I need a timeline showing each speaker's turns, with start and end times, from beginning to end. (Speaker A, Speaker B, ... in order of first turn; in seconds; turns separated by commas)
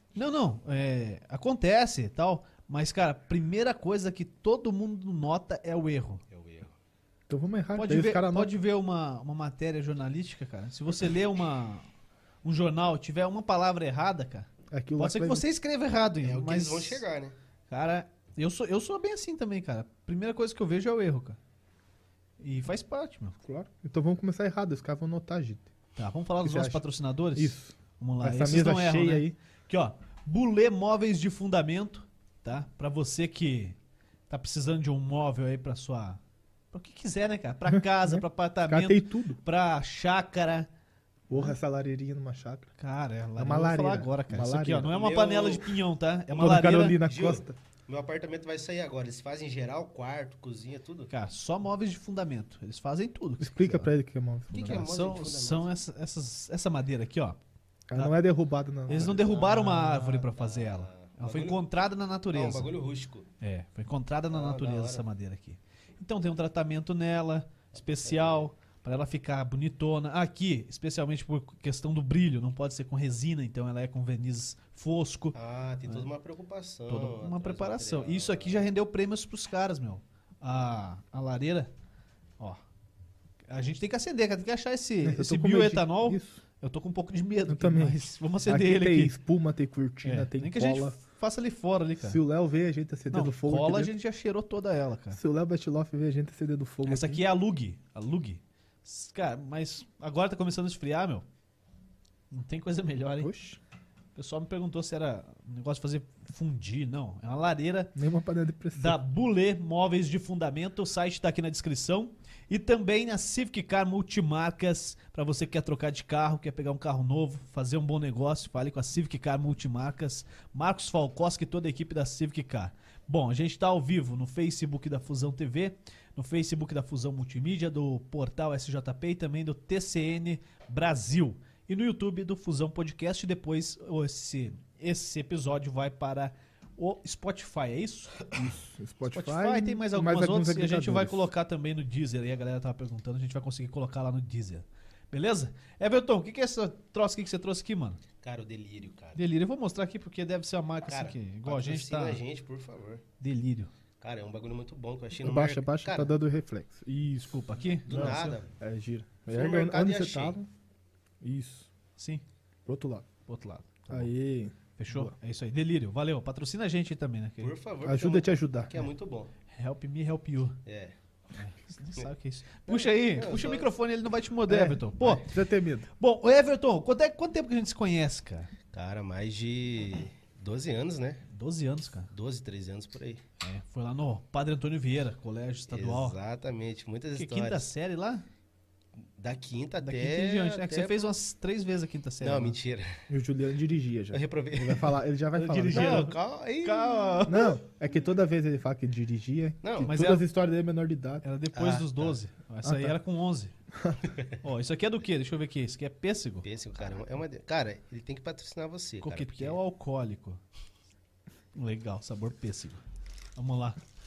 Speaker A: 0.1-6.2, Speaker B: 6.3-6.7, Speaker C: 7.3-8.6, Speaker A: 7.8-11.9, Speaker A: 12.4-17.0, Speaker C: 14.7-15.4, Speaker B: 16.2-17.4, Speaker A: 17.7-21.4, Speaker A: 22.4-23.4, Speaker C: 23.4-25.7, Speaker A: 26.0-33.8, Speaker C: 26.4-29.4, Speaker A: 34.3-36.2, Speaker A: 36.7-40.7, Speaker C: 37.7-39.4, Speaker C: 41.3-42.7, Speaker A: 42.8-47.0, Speaker C: 43.4-44.9, Speaker B: 44.9-45.8, Speaker C: 46.3-47.6, Speaker B: 47.0-51.1, Speaker A: 51.1-53.9, Speaker C: 53.4-54.9, Speaker B: 54.5-55.7, Speaker A: 54.6-57.4, Speaker C: 57.9-59.2, Speaker A: 58.9-62.7, Speaker B: 58.9-61.6, Speaker B: 62.3-63.3, Speaker A: 63.4-75.4, Speaker B: 64.3-65.0, Speaker B: 67.9-68.5, Speaker B: 75.3-78.7, Speaker A: 76.9-81.7, Speaker A: 83.5-89.2, Speaker C: 85.0-86.4, Speaker C: 87.5-91.0, Speaker A: 90.0-92.2, Speaker C: 92.0-93.9, Speaker A: 93.1-95.2, Speaker C: 95.1-97.2, Speaker A: 96.8-101.2, Speaker A: 102.3-103.3, Speaker C: 103.2-103.6, Speaker A: 104.2-108.0, Speaker C: 108.0-109.0, Speaker A: 108.8-138.5, Speaker C: 138.3-141.3, Speaker A: 139.1-148.0, Speaker B: 148.2-149.2, Speaker A: 149.2-152.2, Speaker B: 150.9-153.0, Speaker A: 153.2-153.7, Speaker B: 154.0-156.1, Speaker C: 155.2-160.5, Speaker A: 157.2-158.4, Speaker B: 157.9-158.5, Speaker B: 159.3-160.4, Speaker C: 161.2-161.7, Speaker A: 162.0-162.2, Speaker C: 162.7-163.1, Speaker A: 163.3-164.1, Speaker C: 163.9-165.1, Speaker A: 164.8-167.5, Speaker B: 167.4-169.3, Speaker C: 167.8-168.9, Speaker A: 169.5-170.6, Speaker B: 170.7-170.9, Speaker A: 171.3-175.3, Speaker B: 172.7-173.7, Speaker C: 174.5-175.9, Speaker A: 176.0-178.5, Speaker B: 178.7-181.2, Speaker A: 181.3-182.1, Speaker B: 182.1-183.2, Speaker A: 183.4-186.2, Speaker B: 185.7-187.7, Speaker A: 187.1-188.2, Speaker B: 189.2-191.0, Speaker A: 189.8-192.6, Speaker B: 192.2-193.1, Speaker C: 193.1-196.1, Speaker B: 194.1-195.0, Speaker A: 195.3-197.5, Speaker B: 195.7-197.3, Speaker C: 197.3-201.2, Speaker B: 199.6-199.9, Speaker A: 199.8-200.3, Speaker A: 201.2-203.5, Speaker B: 201.5-202.2, Speaker C: 202.6-203.0, Speaker C: 203.8-204.1, Speaker A: 204.4-206.5, Speaker B: 206.4-209.6, Speaker A: 209.0-210.4, Speaker A: 211.5-212.8, Speaker A: 213.4-213.8